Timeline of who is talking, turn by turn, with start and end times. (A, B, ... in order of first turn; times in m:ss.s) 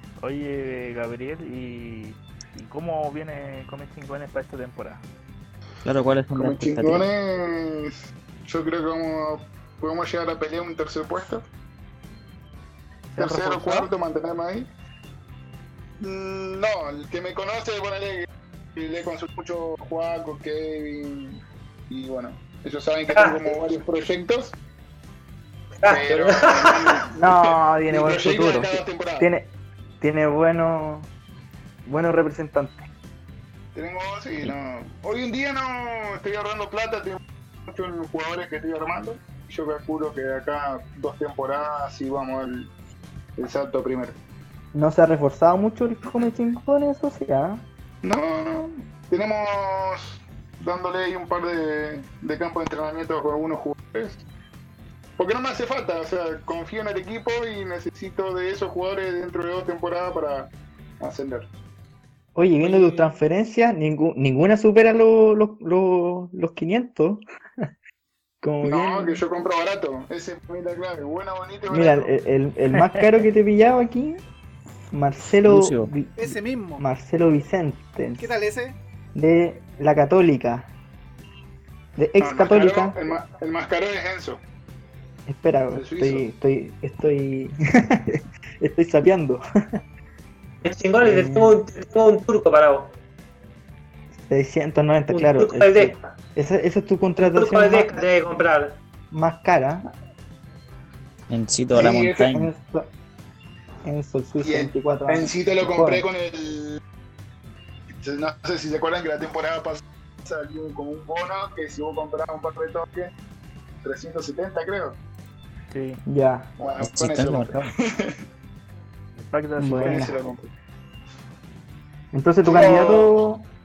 0:00.2-0:05.0 A
0:05.8-0:07.1 B
0:06.3-0:11.4 C
0:13.1-0:13.9 A
0:13.2-0:14.7 C
0:16.0-0:24.5 C
0:23.1-0:23.4 D
0:25.8-0:27.0 D
0:25.8-0:29.3 C
0:27.2-0:31.1 E
0:31.8-0:32.9 E
0:33.7-0:42.7 C
0:43.4-0:44.2 C
0:44.7-0:47.7 E
0:48.0-0:54.2 C
0:55.2-1:01.5 C
1:02.4-1:07.2 E
1:02.6-1:03.2 F
1:08.4-1:09.2 E
1:08.6-1:12.1 C
1:11.7-1:14.2 E
1:14.9-1:18.3 E
1:15.4-1:15.9 B
1:16.2-1:16.8 F
1:18.2-1:18.8 F
1:19.1-1:20.7 E
1:22.0-1:23.0 E
1:22.2-1:24.4 C
1:25.3-1:29.4 E
1:25.7-1:26.2 C
1:30.6-1:32.9 D
1:31.0-1:31.6 E
1:34.2-1:38.0 E
1:35.1-1:36.0 D
1:37.2-1:38.8 D
1:39.1-1:39.8 E
1:41.3-1:42.5 B
1:41.8-1:42.2 C
1:41.8-1:42.9 E
1:43.8-1:46.0 E
1:44.4-1:46.8 C
1:48.0-1:53.1 C
1:53.8-1:55.0 C
1:55.7-1:56.0 A
1:56.0-1:56.5 E
1:56.6-1:58.2 C
1:56.8-1:57.7 B
1:59.2-2:00.2 A
1:59.6-2:00.2 E
1:59.7-2:00.5 C
2:02.1-2:03.5 E
2:02.4-2:03.1 C